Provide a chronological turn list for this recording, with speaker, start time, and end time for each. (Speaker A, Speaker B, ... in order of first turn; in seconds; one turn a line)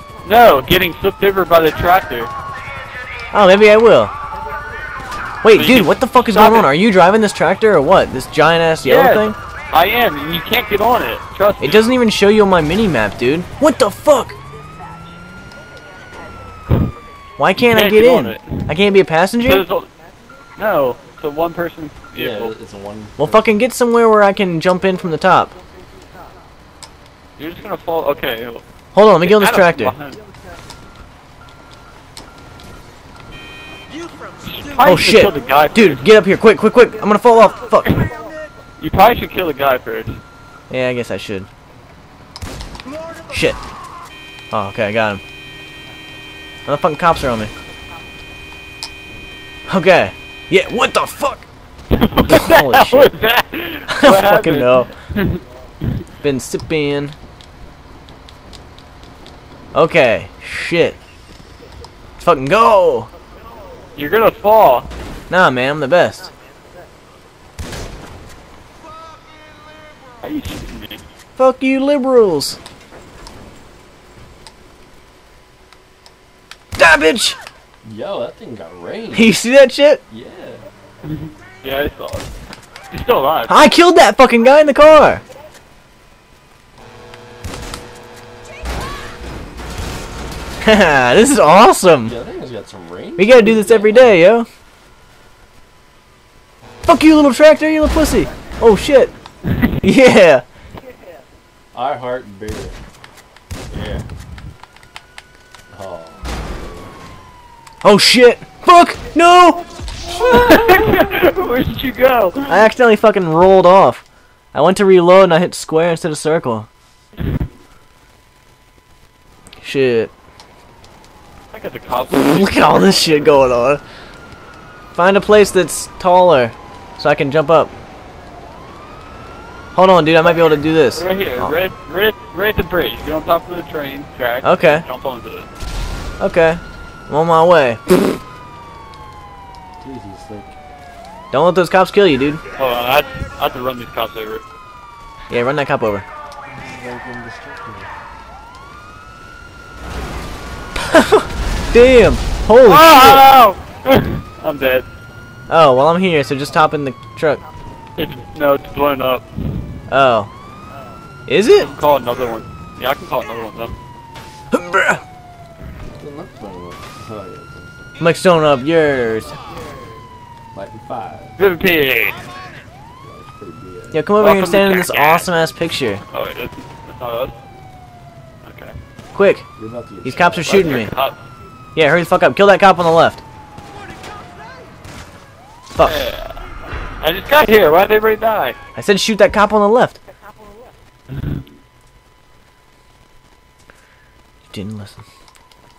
Speaker A: 0.2-2.3
Speaker B: 3.3-4.1
Speaker B: 5.4-9.3
Speaker A: 5.5-6.7
Speaker A: 8.8-11.9
Speaker B: 11.6-14.4
Speaker B: 17.4-19.6
Speaker A: 17.6-18.7
Speaker A: 19.4-19.9
Speaker A: 20.6-22.5
Speaker C: 22.1-23.5
Speaker B: 23.2-25.5
Speaker A: 27.4-28.6
Speaker B: 28.9-29.9
Speaker A: 29.2-30.2
Speaker A: 34.4-36.0
Speaker B: 34.8-38.0
Speaker A: 38.8-40.2
Speaker B: 40.7-41.5
Speaker B: 43.3-43.6
Speaker B: 44.5-45.2
Speaker B: 46.6-47.5
Speaker B: 49.7-51.5
Speaker A: 51.9-56.0
Speaker B: 52.3-53.1
Speaker B: 53.9-54.9
Speaker B: 56.2-57.1
Speaker B: 59.7-61.0
Speaker B: 62.2-63.1
Speaker A: 64.0-64.9
Speaker B: 65.3-66.3
Speaker A: 70.2-71.0
Speaker B: 71.4-72.6
Speaker B: 76.8-77.4
Speaker C: 77.8-79.3
Speaker B: 79.1-80.0
Speaker C: 80.1-80.6
Speaker A: 81.0-82.3
Speaker A: 82.9-83.6
Speaker B: 83.5-85.2
Speaker B: 90.6-92.1
Speaker C: 92.0-94.2
Speaker B: 93.2-94.5
Speaker B: 96.8-99.1
Speaker A: 99.4-99.8
Speaker B: 99.8-100.4
Speaker C: 101.7-102.8
Speaker C: 103.7-104.0
Speaker C: 105.7-106.9
Speaker B: 107.8-109.6
Speaker C: 110.1-111.2
Speaker A: 110.1-112.5
Speaker B: 112.5-116.7
Speaker B: 119.6-120.1
Speaker A: 121.5-123.3
Speaker B: 122.0-123.8
Speaker B: 124.9-127.7
Speaker B: 129.7-131.5
Speaker A: 130.9-135.5
Speaker B: 134.4-134.8
Speaker B: 136.2-138.2
Speaker C: 139.8-140.6
Speaker B: 141.3-142.4
Speaker A: 142.6-144.4
Speaker B: 145.3-146.0
Speaker C: 146.5-147.9
Speaker B: 150.8-153.3
Speaker A: 152.6-154.9
Speaker B: 155.5-157.4
Speaker A: 158.0-159.7
Speaker B: 159.9-160.3
Speaker B: 161.3-161.7
Speaker A: 161.6-163.8
Speaker B: 164.5-165.0
Speaker C: 166.0-167.9
Speaker B: 168.0-169.4
Speaker C: 170.5-171.3
Speaker A: 171.4-172.2
Speaker C: 173.0-174.0
Speaker B: 173.9-176.0
Speaker A: 174.2-175.3
Speaker A: 176.1-177.4
Speaker A: 178.4-178.8
Speaker B: 179.1-179.5
Speaker C: 179.6-180.8
Speaker B: 180.0-180.9
Speaker A: 180.5-181.2
Speaker B: 181.7-183.2
Speaker A: 185.8-186.4
Speaker A: 187.0-188.6
Speaker B: 188.8-190.0
Speaker B: 194.5-195.0